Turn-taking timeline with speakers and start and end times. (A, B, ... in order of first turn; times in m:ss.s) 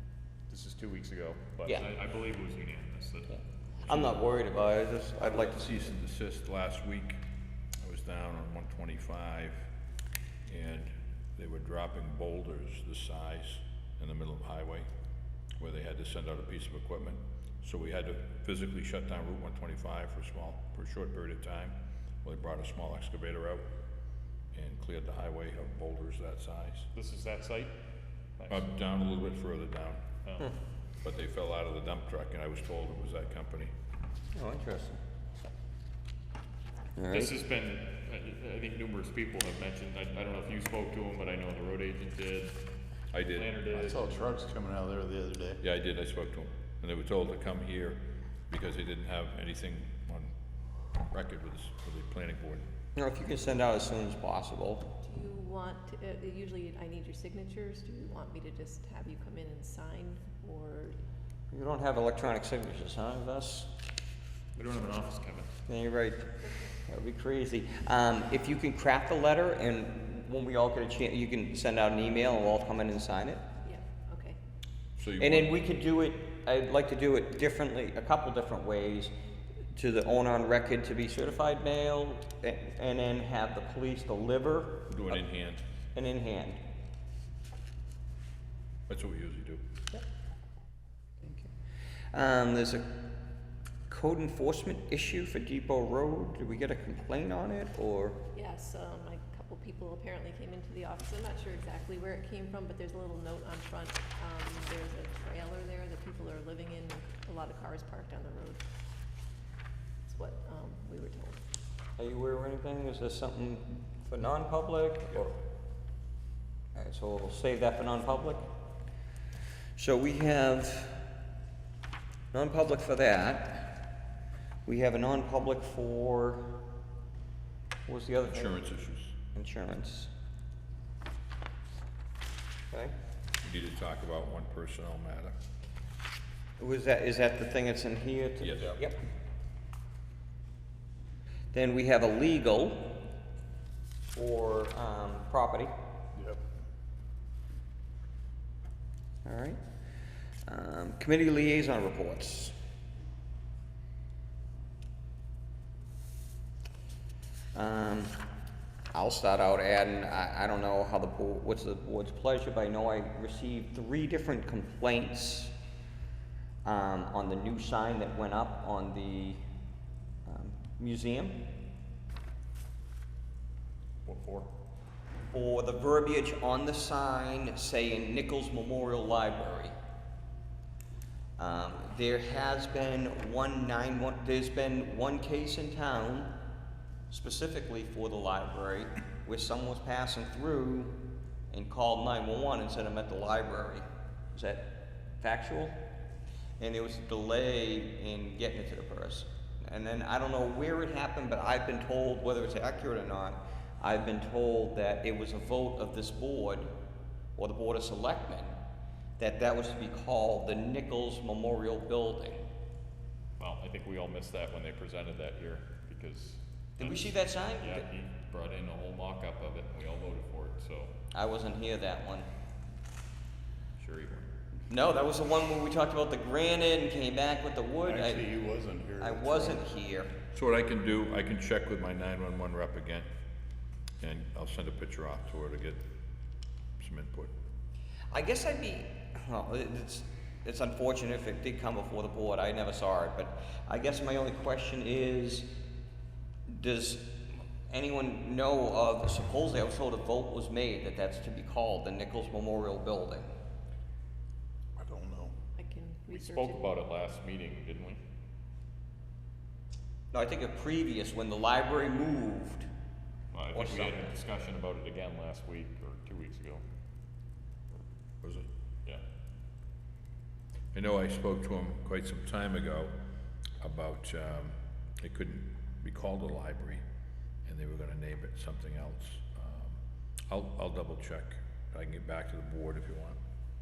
0:00.5-0:04.1 A
0:03.3-0:05.9 B
0:05.4-0:07.2 C
0:07.8-0:09.7 C
0:10.5-0:14.9 C
0:15.6-0:23.6 C
0:24.5-0:26.9 C
0:26.9-0:27.7 A
0:28.4-0:28.6 A
0:28.5-0:30.0 C
0:30.2-0:30.5 A
0:31.0-0:33.7 C
0:34.3-0:35.0 B
0:37.0-0:37.3 B
0:37.1-0:42.6 A
0:43.1-0:43.7 C
0:43.3-0:44.0 A
0:43.7-0:45.6 D
0:45.6-0:50.3 C
0:51.1-0:52.6 C
0:53.0-0:54.9 B
0:55.0-1:01.0 E
1:01.5-1:03.7 B
1:04.6-1:05.5 A
1:05.7-1:06.3 B
1:06.8-1:13.4 B
1:13.6-1:14.4 E
1:15.0-1:15.6 C
1:15.2-1:19.1 B
1:19.7-1:25.2 B
1:24.9-1:25.6 C
1:25.9-1:26.6 B
1:28.9-1:29.6 C
1:31.2-1:31.5 B
1:32.1-1:32.8 B
1:33.9-1:38.2 B
1:38.3-1:48.6 E
1:50.0-1:51.4 E
1:52.0-1:55.4 B
1:56.8-1:58.4 B
1:59.8-2:01.0 B
2:02.3-2:03.8 B
2:04.6-2:06.5 B
2:07.9-2:08.5 B
2:08.3-2:09.2 C
2:09.3-2:10.1 B
2:13.4-2:15.3 C
2:16.6-2:19.0 B
2:18.4-2:18.8 C
2:21.5-2:22.9 B
2:24.1-2:25.7 B
2:26.2-2:26.4 D
2:29.2-2:29.6 B
2:30.5-2:32.5 B
2:37.5-2:38.2 B
2:38.9-2:45.5 B
2:46.6-2:49.4 B
2:50.2-2:51.4 B
2:54.0-2:54.5 A
2:55.3-2:59.7 B
3:01.4-3:06.3 B
3:07.1-3:11.0 B
3:11.5-3:15.8 B
3:16.6-3:26.7 B
3:27.4-3:28.6 B
3:29.2-3:32.4 B
3:33.4-3:40.9 A
3:36.8-3:37.8 B
3:41.1-3:42.3 B
3:43.8-3:44.3 A
3:44.7-3:48.4 B
3:47.8-3:49.6 D
3:49.0-3:50.1 B
3:50.3-3:53.1 C
3:54.0-3:55.8 C
3:56.8-3:57.3 C
3:58.1-4:05.5 B
4:06.5-4:07.2 B
4:07.7-4:13.3 B
4:14.8-4:15.4 D
4:15.6-4:16.7 E
4:16.1-4:18.0 A
4:20.1-4:22.7 B
4:23.3-4:26.6 A
4:23.5-4:24.2 B
4:30.7-4:32.9 C
4:33.6-4:36.8 C
4:37.4-4:39.8 C
4:40.3-4:43.2 C